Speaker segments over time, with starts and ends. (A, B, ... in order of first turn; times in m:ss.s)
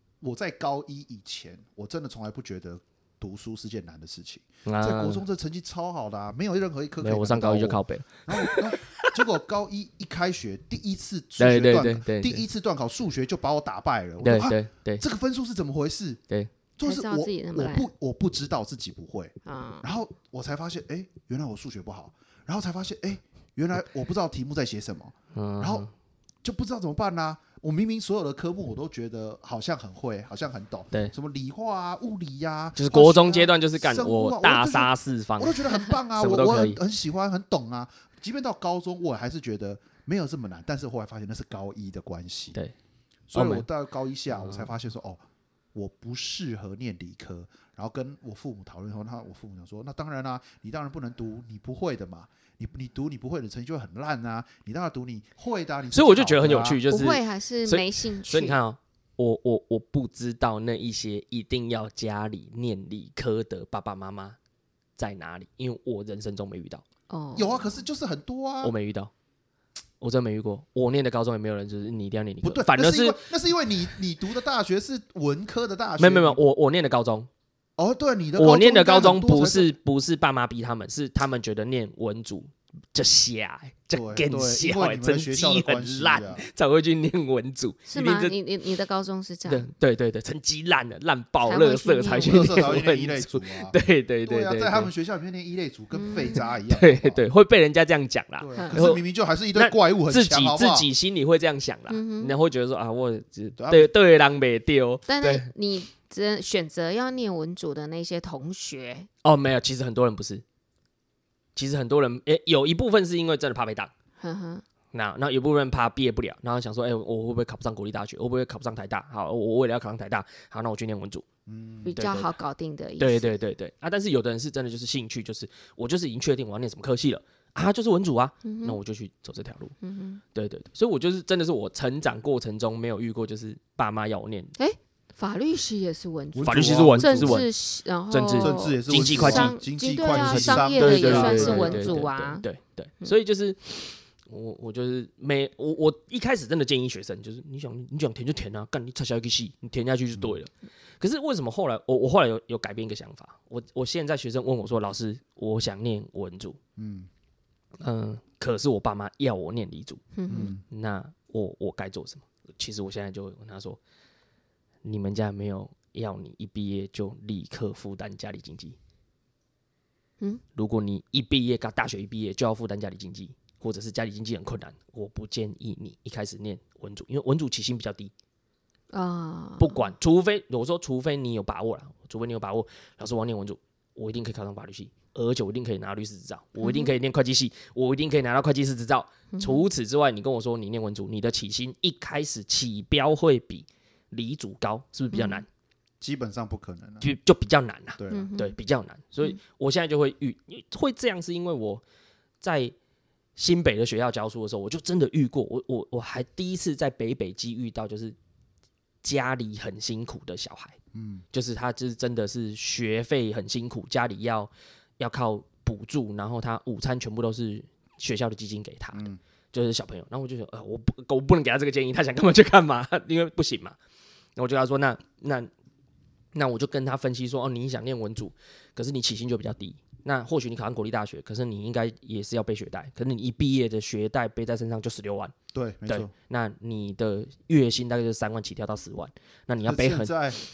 0:00.2-0:16.2 A
0:04.6-0:05.2 B
0:07.0-0:09.1 B
0:11.4-0:12.4 B
0:14.2-0:15.0 B
0:16.8-0:25.9 A
0:16.8-0:17.9 C
0:19.4-0:19.8 C
0:25.3-0:25.9 B
0:26.4-0:42.6 A
0:32.8-0:36.8 B
0:43.3-0:45.2 A
0:43.3-0:43.6 B
0:44.3-0:44.7 B
0:45.7-0:56.8 A
0:55.9-1:04.4 B
0:56.9-0:58.6 C
1:05.0-1:06.8 B
1:07.1-1:07.8 C
1:07.3-1:08.7 A
1:08.6-1:09.1 B
1:10.0-1:13.2 B
1:12.4-1:16.4 A
1:16.0-1:17.3 B
1:17.8-1:19.7 A
1:18.4-1:28.4 B
1:23.9-1:26.5 A
1:27.9-1:29.7 C
1:29.4-1:34.9 B
1:31.4-1:32.7 C
1:32.2-1:37.2 A
1:35.9-1:36.5 C
1:36.7-1:39.0 B
1:38.4-1:40.9 A
1:38.6-1:38.8 C
1:39.5-1:45.5 B
1:41.9-1:42.4 C
1:43.6-1:43.9 A
1:45.1-1:49.1 C
1:49.2-1:50.4 B
1:51.6-1:53.9 B
1:54.2-1:54.6 C
1:54.9-2:01.2 B
2:01.5-2:02.0 A
2:01.8-2:03.3 C
2:01.9-2:02.3 B
2:03.0-2:09.7 B
2:08.4-2:08.8 C
2:09.8-2:10.2 C
2:10.3-2:14.5 B
2:14.6-2:22.4 C
2:16.3-2:17.4 A
2:16.4-2:17.5 B
2:18.1-2:36.6 B
2:18.4-2:22.1 A
2:36.8-2:37.1 A
2:37.8-2:40.0 B
2:40.1-2:40.5 C
2:40.3-2:40.6 A
2:40.6-2:43.8 B
2:44.8-2:48.8 B
2:50.6-2:58.1 B
2:58.9-2:59.9 C
2:59.6-3:15.5 B
3:06.6-3:06.9 C
3:09.3-3:09.6 C
3:15.1-3:15.4 C
3:16.0-3:17.0 A
3:17.0-3:21.8 B
3:18.0-3:18.3 A
3:18.1-3:18.6 C
3:22.4-3:22.7 B
3:23.4-3:28.2 B
3:29.0-3:30.8 B
3:30.9-3:31.2 A
3:31.3-3:43.8 B
3:38.9-3:39.2 A
3:44.4-3:45.5 B
3:46.3-3:55.3 B
3:55.5-3:56.1 A
3:55.9-4:00.1 B
3:59.6-4:00.4 A